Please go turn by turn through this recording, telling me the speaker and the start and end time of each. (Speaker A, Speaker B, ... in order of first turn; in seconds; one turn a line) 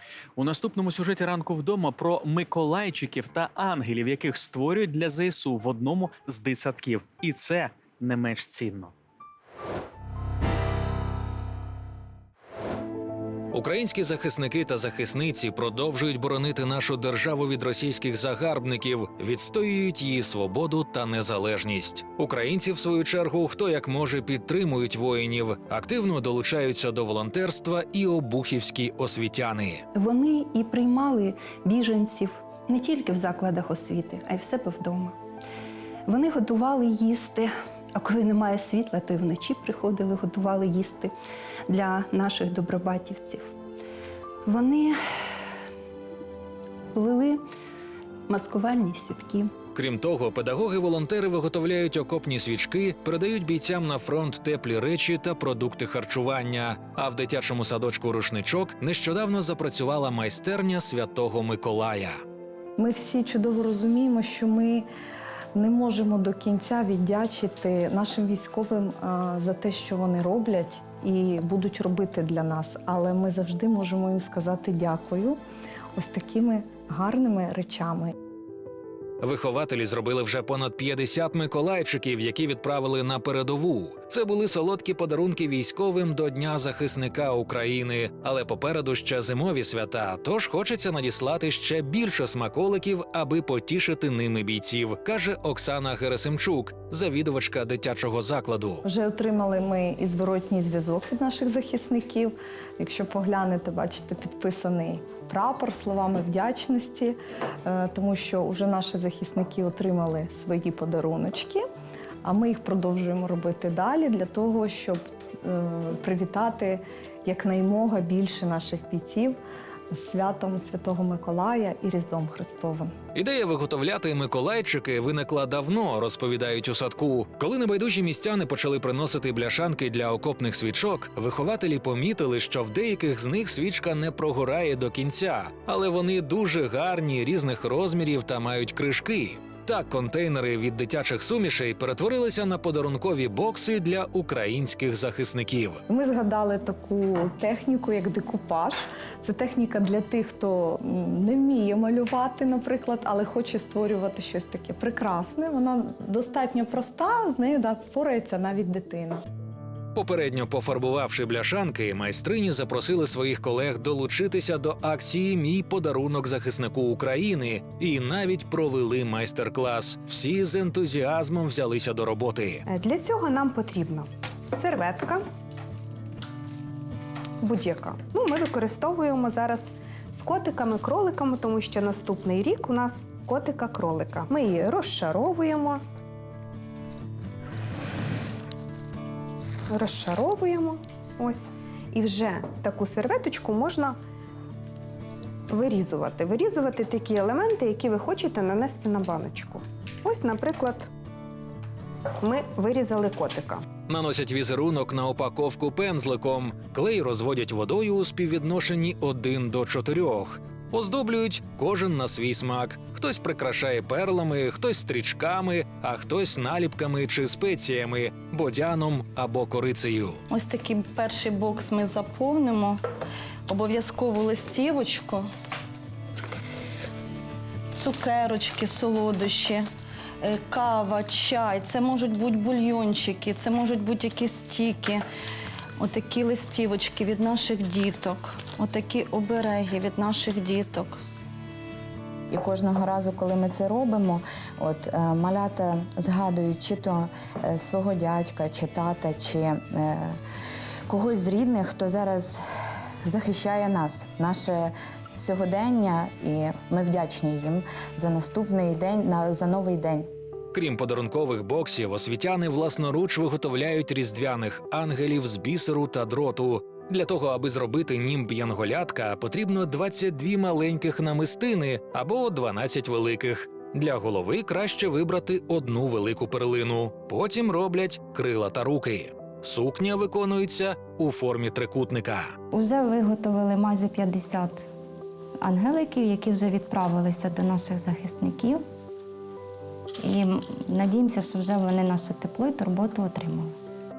Speaker A: 0.4-8.9
Speaker B: 13.5-29.8
Speaker C: 29.9-35.2
Speaker C: 36.1-41.1
Speaker C: 41.7-43.5
Speaker C: 44.5-45.0
Speaker C: 46.9-47.4
Speaker C: 48.3-49.5
Speaker B: 49.7-62.2
Speaker D: 62.8-64.8
Speaker D: 65.5-75.4
Speaker D: 76.0-78.1
Speaker B: 79.2-98.8
Speaker D: 98.8-111.6
Speaker D: 112.2-119.4
Speaker D: 119.9-122.9
Speaker B: 123.1-145.8
Speaker D: 145.9-159.2
Speaker B: 159.9-172.6
Speaker E: 172.7-175.2
Speaker E: 177.4-185.8
Speaker E: 189.7-194.0
Speaker E: 195.5-200.9
Speaker E: 202.2-203.6
Speaker B: 203.9-220.2
Speaker F: 220.3-222.8
Speaker F: 223.5-225.3
Speaker F: 227.7-229.6
Speaker F: 230.2-235.0
Speaker F: 235.8-241.0
Speaker G: 242.3-250.2
Speaker G: 250.9-252.4
Speaker G: 253.0-260.1
Speaker B: 260.5-282.3
Speaker H: 282.5-284.6
Speaker H: 285.4-288.6
Speaker H: 290.0-293.5